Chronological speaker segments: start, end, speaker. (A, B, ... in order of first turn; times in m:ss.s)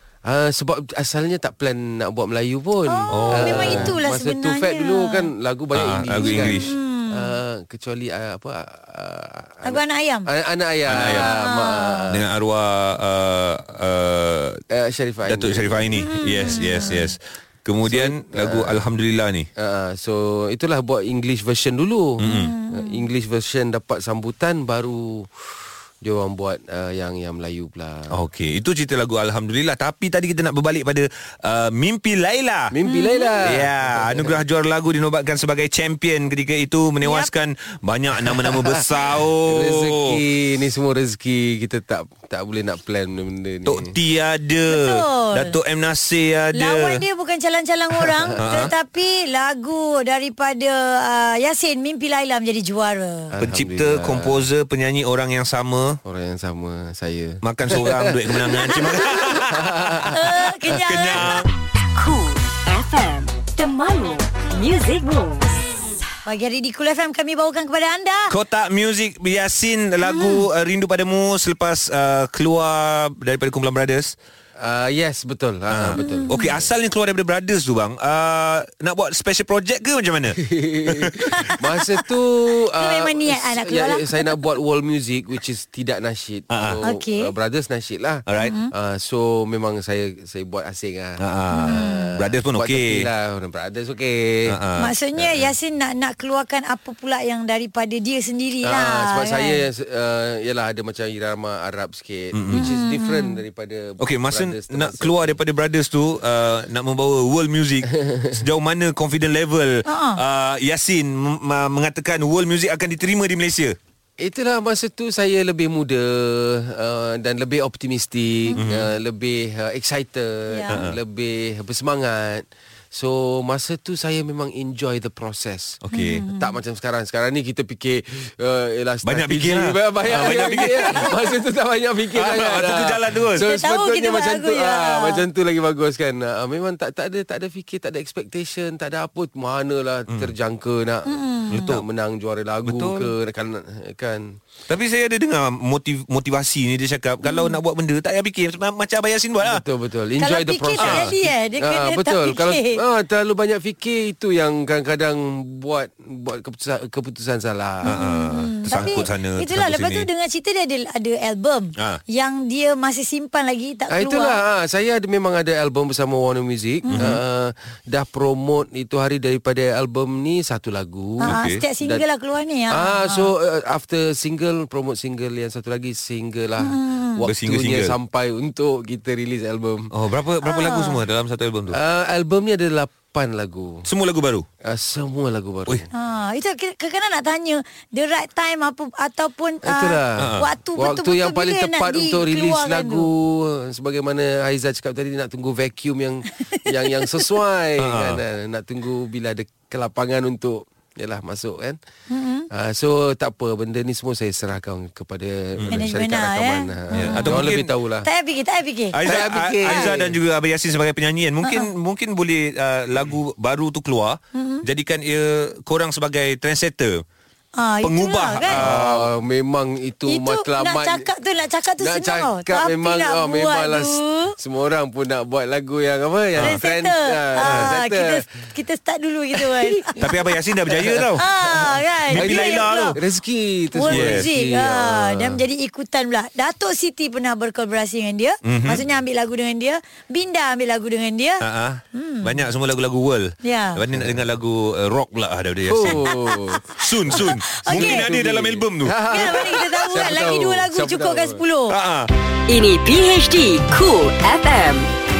0:00.2-0:12.3 A
0:02.9-0:05.3 B
0:03.1-0:03.9 C
0:05.7-0:06.7 C
0:06.6-0:07.3 B
0:09.6-0:10.3 B
0:10.9-0:11.3 C
0:11.2-0:12.1 B
0:12.1-0:14.6 C
0:14.7-0:16.9 A
0:15.3-0:19.5 C
0:16.0-0:17.1 B
0:17.8-0:18.9 A
0:19.6-0:28.2 A
0:22.2-0:22.5 C
0:22.2-0:23.0 B
0:28.1-0:32.7 C
0:32.7-0:34.4 A
0:32.8-0:33.4 B
0:33.4-0:40.2 C
0:37.0-0:37.3 B
0:38.2-0:43.9 A
0:43.6-0:47.0 C
0:44.7-0:45.6 B
0:46.5-0:53.3 B
0:48.2-0:48.7 A
0:48.4-0:48.7 C
0:53.3-0:54.5 A
0:53.4-0:56.0 C
0:56.0-1:00.3 A
0:57.4-1:01.5 C
0:58.7-0:59.2 B
1:00.1-1:01.4 B
1:01.9-1:05.5 D
1:06.2-1:08.3 B
1:08.3-1:14.1 C
1:10.0-1:10.4 B
1:14.6-1:16.7 A
1:15.7-1:21.5 C
1:16.0-1:16.5 B
1:20.4-1:34.5 A
1:22.8-1:24.4 B
1:26.5-1:26.8 C
1:26.8-1:27.3 B
1:28.3-1:28.5 C
1:28.4-1:28.7 B
1:31.2-1:33.0 C
1:31.5-1:32.1 B
1:34.5-1:34.9 C
1:34.8-1:39.6 B
1:38.6-1:45.4 A
1:42.3-1:42.7 C
1:42.5-1:43.4 B
1:44.0-1:53.8 C
1:48.0-1:48.4 A
1:49.8-1:50.2 B
1:54.2-2:24.4 A
1:58.6-1:58.9 C
2:00.5-2:00.8 B
2:00.7-2:01.0 C
2:05.8-2:06.2 C
2:05.9-2:06.5 B
2:09.0-2:11.1 C
2:10.2-2:10.6 B
2:12.1-2:13.4 C
2:13.4-2:15.2 B
2:21.1-2:21.8 B
2:21.5-2:21.8 C
2:22.6-2:23.1 C
2:24.7-2:29.6 C
2:27.2-2:27.6 B
2:29.4-2:38.0 A
2:30.2-2:32.8 B
2:30.8-2:31.1 C
2:37.8-2:40.1 C
2:37.8-2:44.4 B
2:38.7-2:39.0 A
2:43.9-2:52.0 A
2:46.9-2:47.2 C
2:51.2-2:53.3 B
2:51.2-2:51.6 C
2:52.7-2:59.9 A
2:56.6-2:57.2 B
2:57.2-2:57.9 C
2:59.9-3:01.8 C
3:00.4-3:01.0 B
3:01.7-3:03.9 A
3:03.9-3:04.5 C
3:04.6-3:05.9 A
3:05.9-3:13.1 B
3:09.6-3:21.8 A
3:10.2-3:10.5 C
3:16.5-3:17.0 B
3:17.8-3:18.2 C
3:22.1-3:22.5 B
3:22.5-3:28.1 A
3:25.6-3:25.8 C
3:25.7-3:27.5 B
3:26.9-3:27.7 C
3:28.0-3:29.0 B
3:28.9-3:37.0 C
3:29.0-3:30.2 A
3:29.6-3:29.9 B
3:34.3-3:34.6 B
3:37.6-3:38.6 B
3:37.8-3:39.1 C
3:38.5-3:41.1 A
3:40.1-3:44.3 B
3:41.8-3:48.2 A
3:46.4-3:49.9 B
3:47.4-3:47.7 C
3:49.4-3:55.4 A
3:50.0-3:51.2 C
3:51.2-3:53.0 B
3:52.1-3:53.0 C
3:53.7-4:01.4 B
3:53.9-3:54.2 C
3:58.4-3:58.8 C
4:01.4-4:06.0 C
4:01.9-4:02.4 B
4:03.4-4:03.8 B
4:03.9-4:04.2 A
4:05.6-4:06.6 A
4:06.0-4:06.3 B
4:06.7-4:08.9 C
4:07.1-4:08.0 B
4:07.6-4:11.4 A
4:09.1-4:11.7 B
4:11.7-4:12.1 C
4:12.5-4:14.9 D